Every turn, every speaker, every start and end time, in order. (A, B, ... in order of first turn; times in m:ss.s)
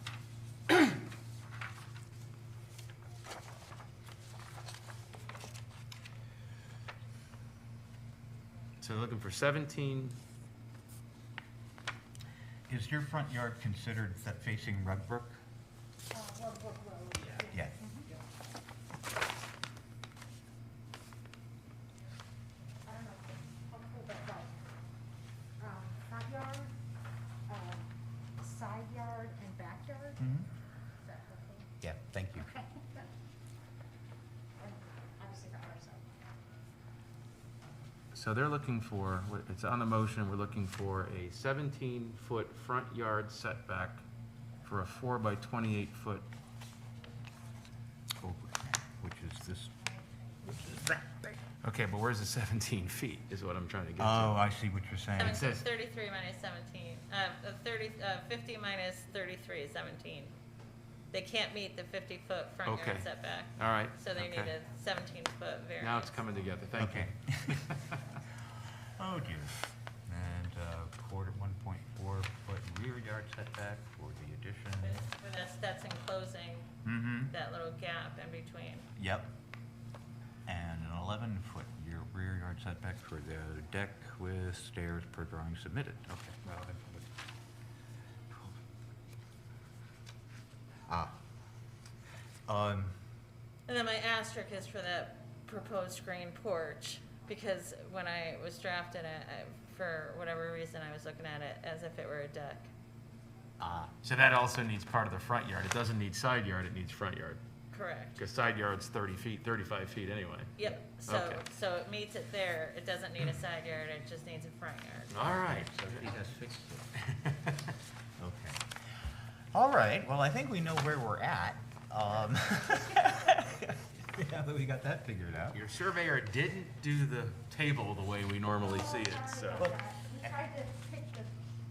0:00.7-0:01.0 A
0:08.8-0:10.2 B
0:12.7-0:15.4 A
0:16.1-0:18.1 C
0:22.8-0:24.5 C
0:25.6-0:26.7 C
0:27.5-0:30.3 C
0:30.2-0:30.5 A
0:31.0-0:31.7 C
0:31.8-0:32.5 A
0:32.4-0:33.0 C
0:34.6-0:36.0 C
0:38.1-0:44.0 B
0:44.6-0:46.3 B
0:48.2-0:49.7 A
0:50.4-0:51.4 A
0:51.6-0:54.4 B
0:54.0-0:55.4 A
0:55.2-1:00.3 D
0:55.2-0:55.6 B
1:01.1-1:06.2 D
1:02.6-1:04.5 B
1:05.8-1:07.9 B
1:06.8-1:07.6 A
1:09.0-1:09.6 A
1:10.1-1:15.0 A
1:14.8-1:16.6 D
1:16.8-1:17.3 A
1:17.3-1:18.9 D
1:19.0-1:19.3 A
1:20.4-1:27.1 A
1:28.3-1:28.6 A
1:30.9-1:31.1 A
1:32.5-1:32.9 A
1:33.7-1:42.7 D
1:43.6-1:43.9 A
1:44.0-1:47.4 B
1:47.7-1:48.2 D
1:48.2-1:51.4 B
1:50.6-1:55.1 D
1:55.1-1:56.0 B
1:55.4-1:56.9 A
1:57.1-1:57.5 B
1:58.2-1:58.7 A
1:59.5-2:05.6 A
2:05.5-2:09.7 B
2:08.5-2:11.4 C
2:09.6-2:09.8 A